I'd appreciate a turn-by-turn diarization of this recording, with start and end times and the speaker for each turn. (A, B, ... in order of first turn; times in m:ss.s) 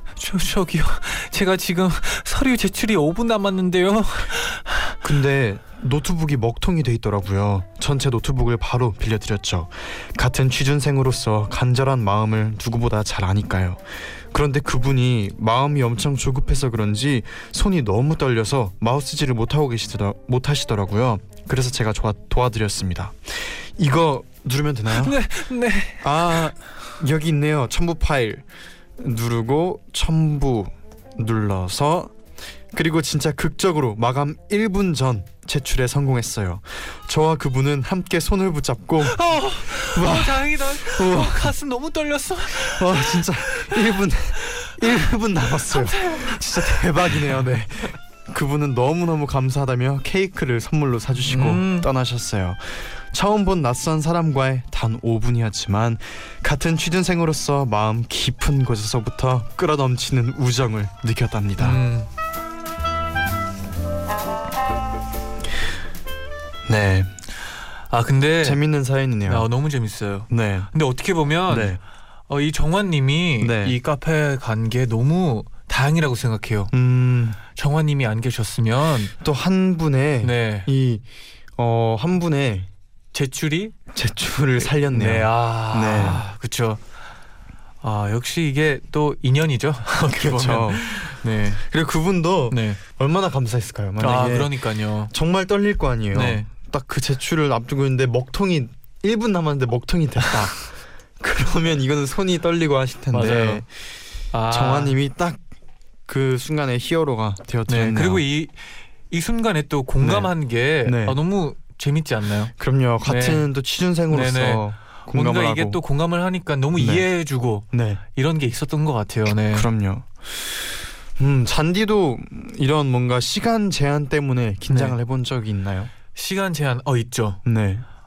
0:00.2-0:05.0 A
0:05.0-0:25.2 B
0:24.9-0:26.5 A
0:26.0-0:32.2 B
0:32.7-0:41.5 B
0:39.1-0:43.9 A
0:42.5-1:01.8 B
0:44.6-0:47.3 A
0:51.3-0:51.9 A
1:01.6-1:02.1 A
1:06.7-1:07.1 B
1:07.9-1:08.6 A
1:08.4-1:09.5 B
1:09.3-1:11.8 A
1:10.3-1:10.7 B
1:11.5-1:11.8 B
1:12.3-1:16.7 A
1:13.4-1:13.8 B
1:16.7-1:17.4 B
1:17.6-1:19.1 A
1:19.2-1:21.0 B
1:20.2-1:20.7 A
1:21.6-1:22.7 B
1:23.1-1:23.8 A
1:23.9-1:26.2 B
1:24.6-1:26.8 A
1:27.8-1:31.6 A
1:30.1-1:40.7 B
1:32.5-1:32.8 A
1:34.0-1:35.1 A
1:36.1-1:36.5 A
1:41.2-1:43.7 B
1:43.1-1:43.6 A
1:44.3-1:45.0 A
1:44.5-1:45.4 B
1:46.1-1:48.2 B
1:47.7-1:52.5 A
1:50.0-1:50.3 B
1:50.8-1:51.2 B
1:52.6-1:55.8 B
1:53.0-1:53.5 A
1:54.1-1:59.7 A
1:56.8-1:57.0 B
1:57.6-1:58.0 B
1:59.5-2:05.9 B
2:04.7-2:05.0 A
2:06.1-2:07.4 A
2:07.4-2:07.8 B